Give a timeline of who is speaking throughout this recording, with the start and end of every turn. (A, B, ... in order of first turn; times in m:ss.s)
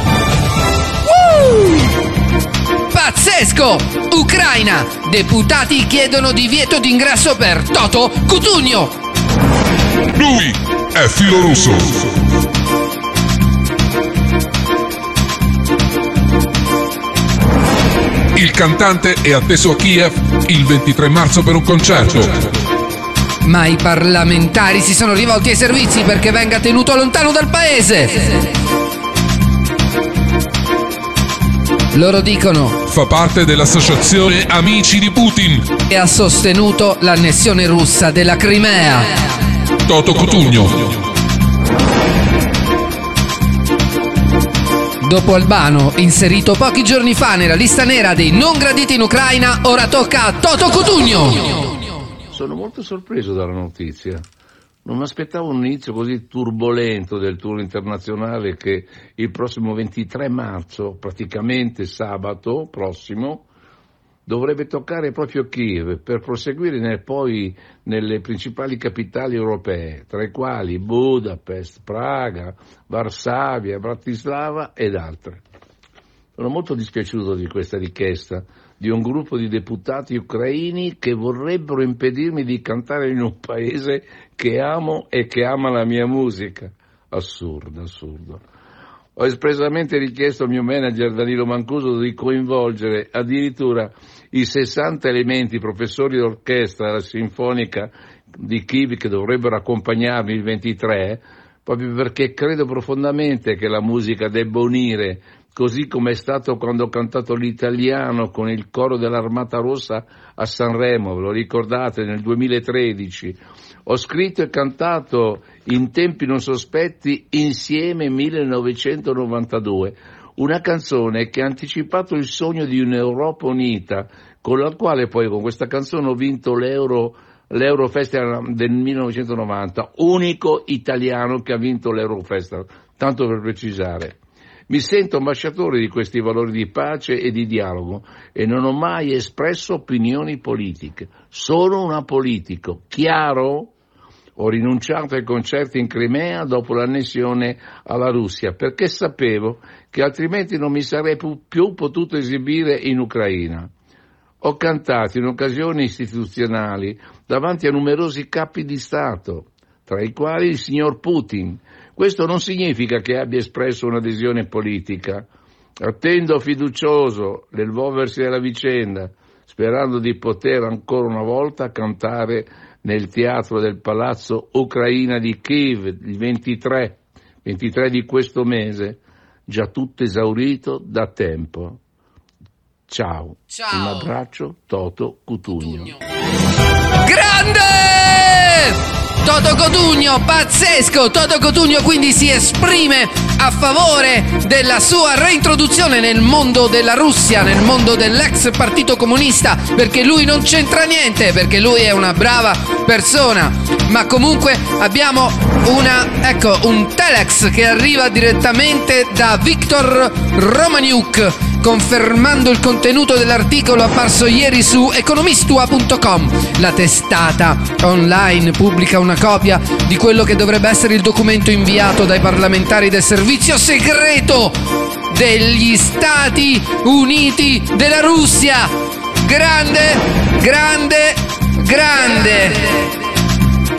0:01.0-0:01.9 A
0:02.9-0:09.0 A
0:10.1-0:12.2 B
0:18.3-0:22.5 B
0:23.4-0:28.5 A
0:31.9-0:32.8 A
0:32.9-0:35.7 B
0:35.9-0:39.2 A
0:39.8-0:41.0 B
0:45.0-0:51.8 A
0:52.3-0:54.2 C
0:54.8-1:03.4 C
1:04.2-1:15.4 C
1:16.4-1:28.4 C
1:29.2-2:14.2 C
2:14.7-2:23.7 C
2:24.4-2:33.7 C
2:34.4-2:45.3 C
2:45.8-3:01.8 C
3:02.9-3:05.9 C
3:03.5-3:04.1 A
3:05.6-3:06.0 A
3:07.0-3:48.7 A
3:49.2-3:52.9 A